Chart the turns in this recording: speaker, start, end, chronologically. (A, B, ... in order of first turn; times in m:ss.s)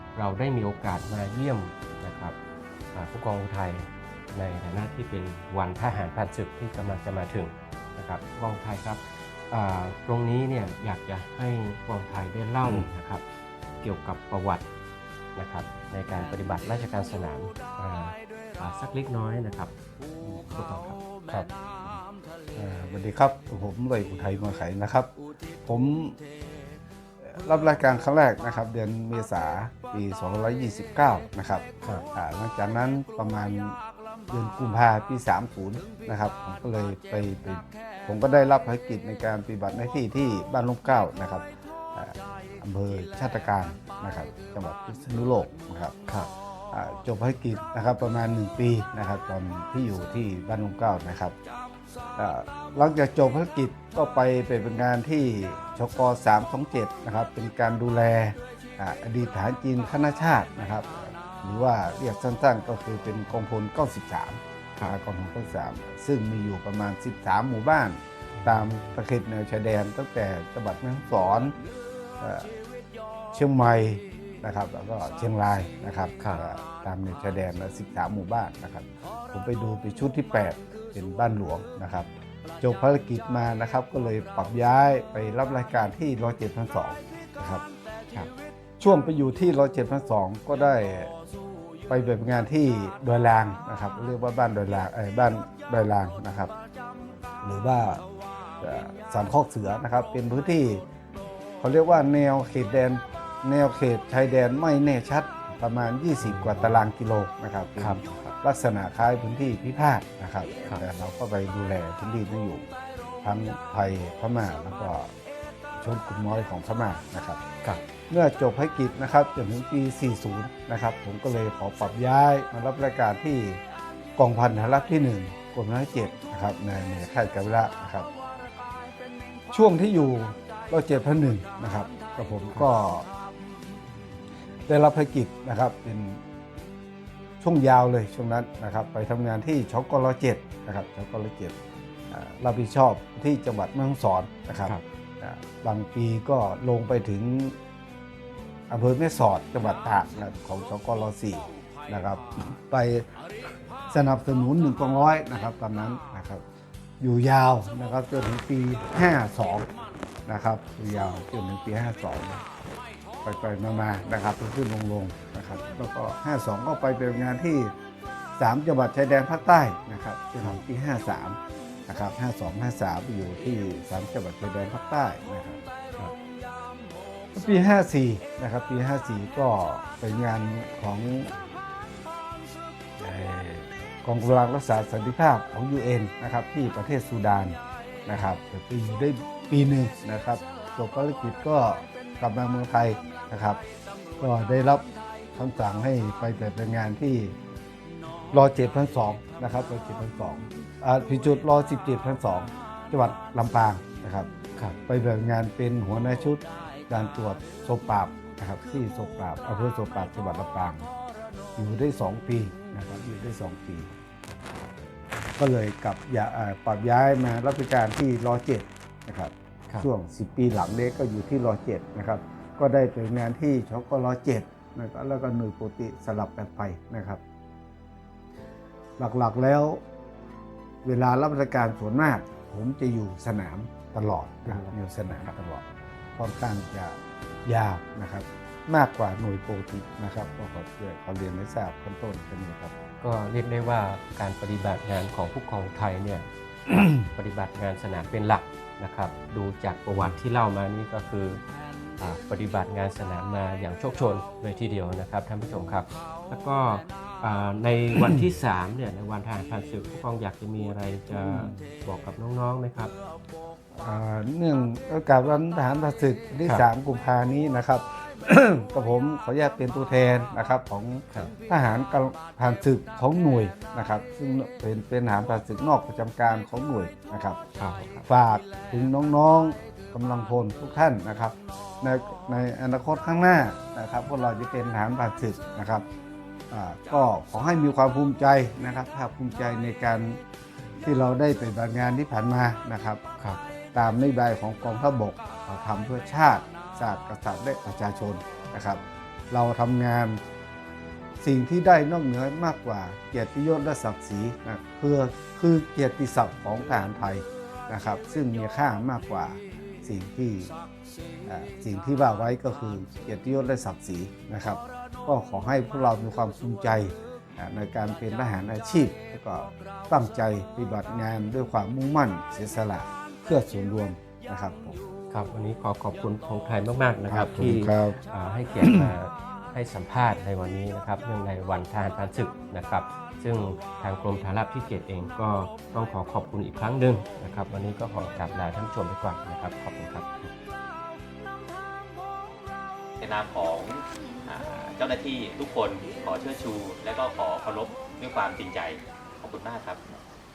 0:00.1-0:02.4 A
0:02.9-0:13.2 A
0:12.6-0:12.9 B
0:13.8-0:14.6 A
0:15.3-0:19.7 A
0:20.4-0:21.0 A
0:21.3-0:22.0 B
0:22.6-0:25.1 B
0:25.6-0:26.2 B
0:27.2-0:33.8 B
0:34.3-0:45.9 B
0:46.7-0:51.3 B
0:52.2-1:11.6 B
1:08.3-1:08.7 A
1:12.2-1:12.5 B
1:13.3-1:22.1 B
1:16.2-1:16.4 A
1:22.6-1:27.6 B
1:28.8-1:31.1 B
1:31.9-1:36.5 B
1:37.4-1:38.0 B
1:38.6-1:40.8 B
1:41.6-1:52.7 B
1:46.2-1:46.8 A
1:47.8-1:48.3 A
1:53.2-1:55.1 B
1:55.8-1:57.4 B
1:58.1-2:03.6 B
2:04.2-2:08.1 B
2:09.5-2:13.1 B
2:14.7-2:16.2 B
2:17.4-2:21.6 B
2:22.1-2:27.6 B
2:28.7-2:33.0 B
2:33.9-2:36.4 B
2:37.0-2:39.7 B
2:40.2-2:42.4 B
2:43.2-2:47.7 B
2:48.4-2:55.6 B
2:57.3-3:01.3 B
3:03.0-3:13.6 B
3:14.2-3:17.3 B
3:18.3-3:24.3 B
3:24.9-3:30.9 B
3:31.6-3:33.9 B
3:35.4-3:47.2 B
3:49.0-3:49.8 B
3:50.8-3:55.6 B
3:54.5-3:55.3 A
3:56.2-4:02.7 B
4:03.0-4:06.2 A
4:06.9-4:11.4 A
4:12.0-4:22.9 A
4:21.1-4:21.6 B
4:23.8-4:37.4 B
4:37.6-4:38.1 A
4:38.1-4:45.8 B
4:46.5-4:50.2 B
4:50.8-4:53.0 B
4:53.2-4:53.4 A
4:53.7-5:00.2 B
5:01.2-5:10.5 B
5:11.2-5:24.8 B
5:25.1-5:40.3 A
5:27.1-5:28.0 B
5:28.6-5:28.9 B
5:43.0-5:49.8 C